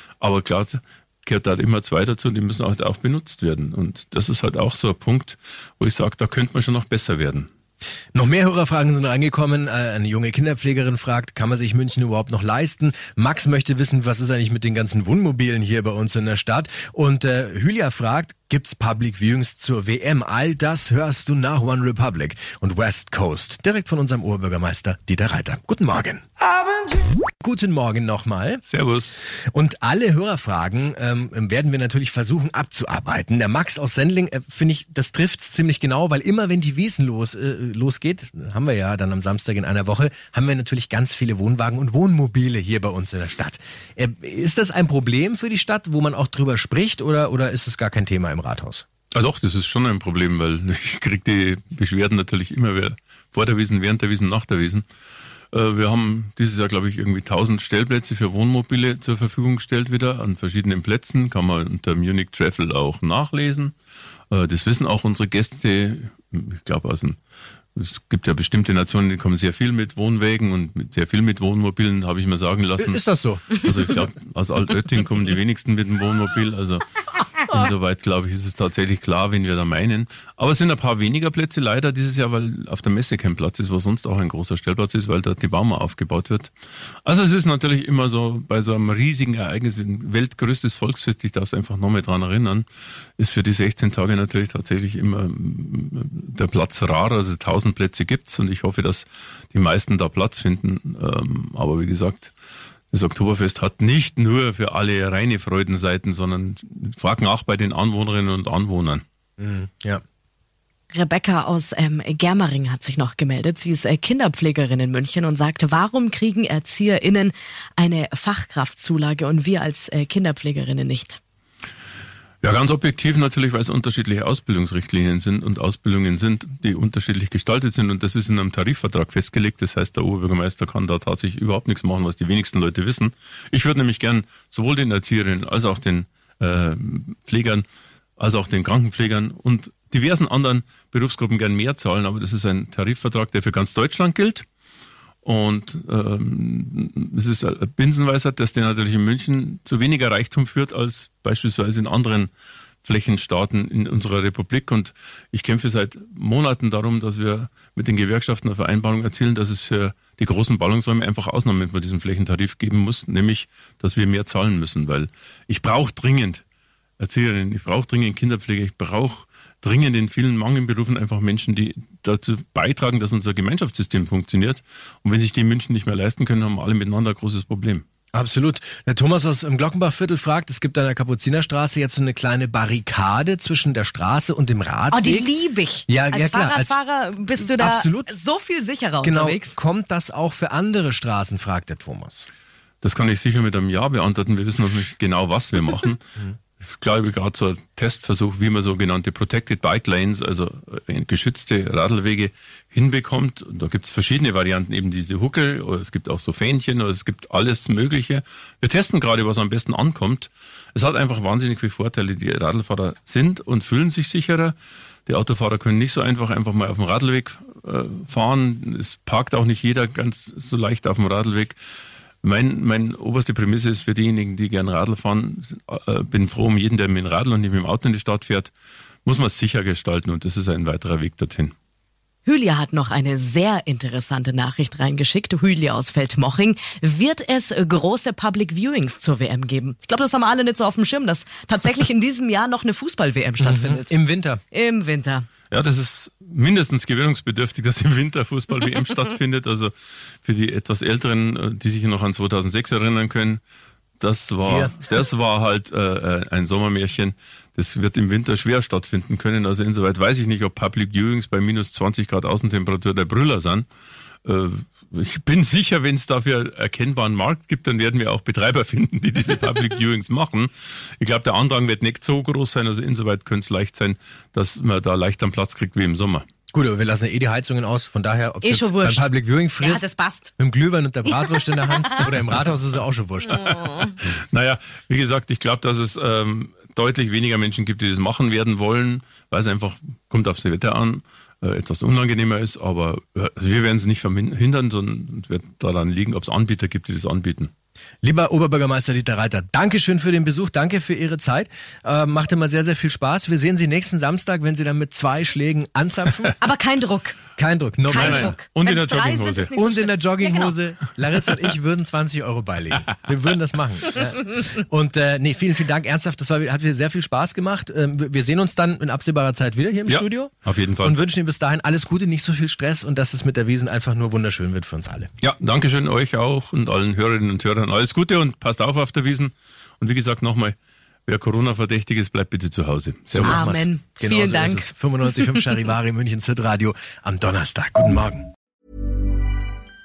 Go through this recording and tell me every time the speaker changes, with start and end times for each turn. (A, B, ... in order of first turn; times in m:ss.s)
0:00.2-0:07.5 A
0:08.1-0:26.3 B
0:26.9-0:28.6 B
0:28.7-0:29.3 A
0:29.3-0:48.9 B
0:49.1-0:54.8 A
0:55.5-1:03.7 A
1:04.3-1:07.2 A
1:07.8-1:16.9 A
1:12.8-1:13.6 B
1:17.4-1:26.5 A
1:27.0-1:32.6 A
1:33.2-1:42.3 A
1:42.9-1:49.0 A
1:49.4-1:50.0 B
1:50.9-2:01.2 C
2:02.4-2:17.6 A
2:18.2-2:24.5 A
2:25.2-2:32.3 A
2:32.8-2:46.4 A
2:47.0-2:57.9 A
2:58.1-3:05.3 B
3:04.9-3:09.6 C
3:05.9-3:06.8 B
3:07.4-3:08.1 B
3:09.0-3:12.3 B
3:12.8-3:16.0 A
3:16.6-3:34.6 A
3:35.1-3:41.6 A
3:42.2-3:48.5 A
3:49.0-3:51.5 A
3:52.3-4:03.9 C
4:03.4-4:04.4 B
4:04.5-4:05.3 C
4:05.5-4:13.4 A
4:14.0-4:23.7 A
4:14.4-4:14.9 B
4:24.2-4:36.3 A
4:36.5-4:39.8 B
4:38.4-4:40.3 C
4:40.4-4:43.6 B
4:43.3-4:57.5 A
4:43.6-4:43.9 C
4:58.0-5:06.4 B
5:06.4-5:07.2 C
5:07.4-5:08.3 B
5:07.9-5:09.5 A
5:07.9-5:10.6 C
5:09.6-5:25.1 B
5:19.9-5:21.0 A
5:25.2-5:30.6 A
5:31.1-5:33.5 A
5:33.1-5:38.3 B
5:33.3-5:34.7 C